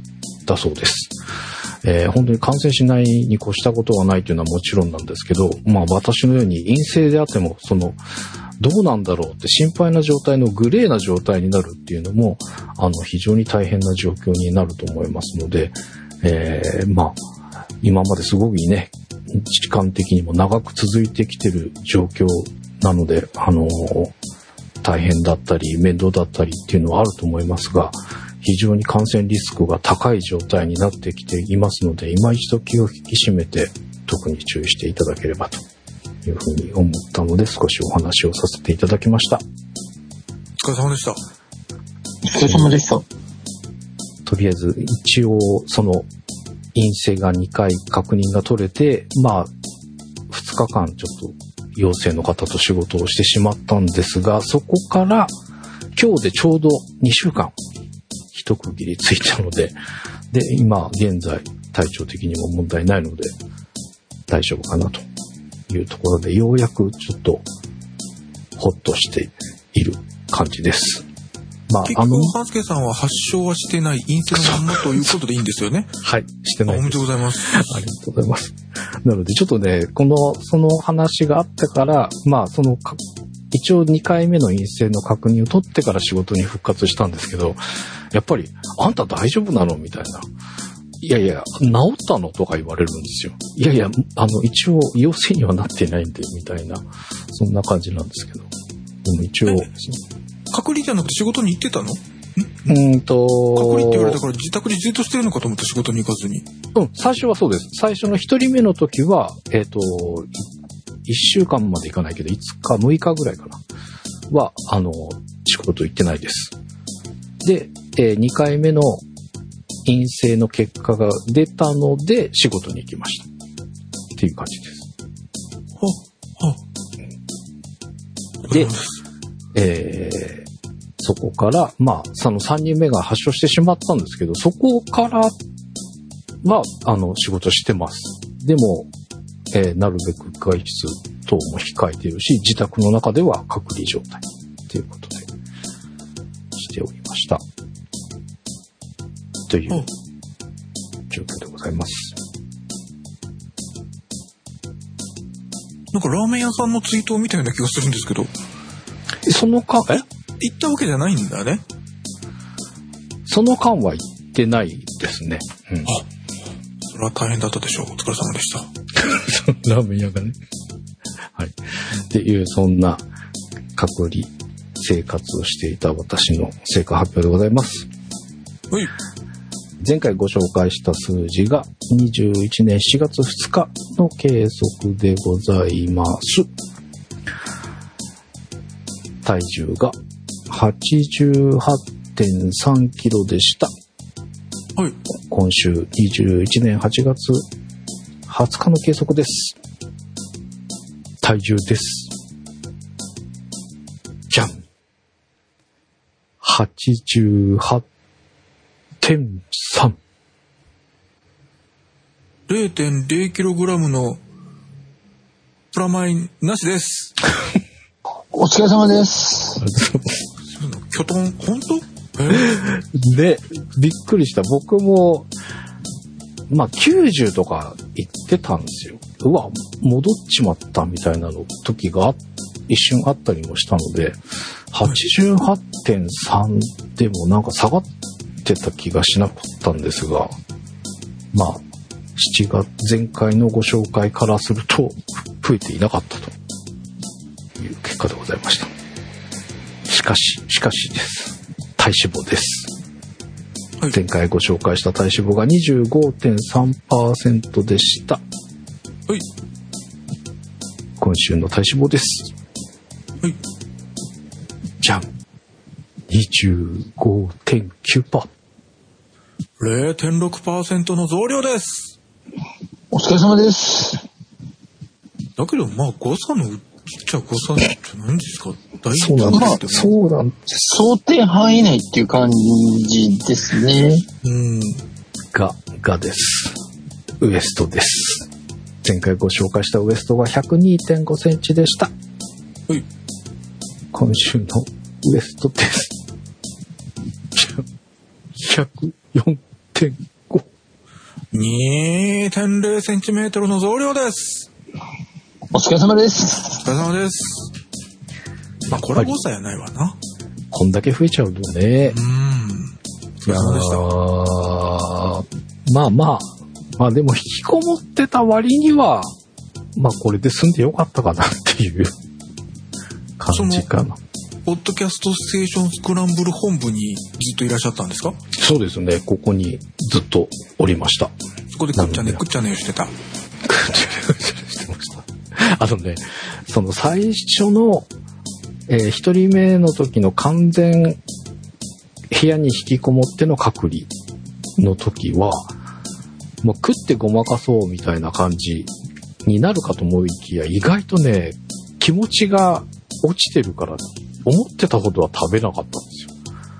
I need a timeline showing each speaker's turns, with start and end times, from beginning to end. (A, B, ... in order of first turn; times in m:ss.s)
0:00.4-0:01.1 A
0:01.8-0:08.0 A
0:08.6-0:17.2 A
0:17.8-0:24.1 A
0:24.8-0:35.6 A
0:36.2-0:39.4 A
0:40.6-0:41.2 B
0:42.2-0:43.0 C
0:44.2-0:46.1 A
0:46.7-0:49.5 A
0:50.3-0:55.3 A
0:55.9-0:57.5 A
0:58.3-0:59.8 A
1:00.3-1:03.3 A
1:04.3-1:05.0 A
1:05.7-1:07.4 A
1:08.6-1:11.0 A
1:11.7-1:12.3 A
1:11.8-1:15.9 B
1:14.3-1:14.8 A
1:16.0-1:23.0 A
1:16.6-1:17.7 B
1:23.5-1:27.6 A
1:28.1-1:30.2 A
1:31.0-1:38.5 A
1:39.0-1:40.0 A
1:40.5-1:42.8 B
1:42.7-1:44.2 A
1:43.5-1:46.4 B
1:46.7-1:50.5 A
1:51.0-1:53.6 A
1:54.3-1:56.5 A
1:57.4-1:59.0 A
1:59.8-2:03.3 A
2:04.1-2:04.9 A
2:05.8-2:06.6 B
2:08.4-2:09.0 B
2:09.5-2:10.4 A
2:11.0-2:15.4 A
2:16.4-2:18.9 A
2:19.5-2:25.3 A
2:26.5-2:27.4 A
2:29.5-2:29.8 A
2:31.1-2:32.2 A
2:35.9-2:38.3 B
2:39.2-2:40.0 A
2:40.0-2:41.6 B
2:43.2-2:45.9 A
2:46.9-2:48.7 B
2:48.9-2:50.4 A
2:51.3-2:53.0 A
2:53.8-2:57.9 A
2:59.8-3:06.5 A
3:09.2-3:09.9 A
3:10.5-3:13.7 A
3:15.2-3:17.4 A
3:18.3-3:19.6 A
3:21.2-3:22.1 A
3:24.3-3:24.6 A
3:26.4-3:27.8 A
3:29.0-3:30.0 A
3:32.5-3:34.2 B
3:35.7-3:37.2 B
3:38.3-3:39.6 C
3:39.6-3:40.2 A
3:40.5-3:42.6 B
3:42.3-3:45.3 A
3:46.5-3:54.2 A
3:54.7-3:57.9 A
3:58.4-4:00.3 A
4:01.3-4:01.6 A
4:02.2-4:06.3 A
4:07.6-4:08.7 A
4:09.8-4:12.7 A
4:13.9-4:18.2 A
4:21.0-4:22.3 A
4:24.8-4:25.0 A
4:26.1-4:28.3 A
4:29.6-4:32.0 B
4:32.9-4:34.0 C
4:35.4-4:39.9 B
4:38.9-4:40.5 A
4:39.3-4:39.6 C
4:40.5-4:44.0 C
4:44.2-4:44.8 B
4:45.3-4:46.6 A
4:47.2-4:48.3 A
4:48.8-4:51.9 A
4:53.9-4:55.9 A
4:57.3-4:57.6 A
4:58.4-5:00.4 A
5:01.3-5:04.5 B
5:05.5-5:06.6 C
5:06.6-5:07.5 B
5:08.7-5:10.0 B
5:08.7-5:09.1 A
5:10.5-5:12.0 A
5:11.8-5:13.8 B
5:13.2-5:19.1 A
5:19.7-5:21.9 A
5:23.2-5:24.0 A
5:23.3-5:23.6 B
5:24.4-5:28.2 B
5:28.3-5:31.1 A
5:31.5-5:32.9 B
5:31.8-5:32.2 A
5:33.4-5:37.9 A
5:38.7-5:41.0 A
5:42.1-5:43.9 A
5:44.6-5:45.5 A
5:46.4-5:48.7 A
5:49.2-5:56.1 A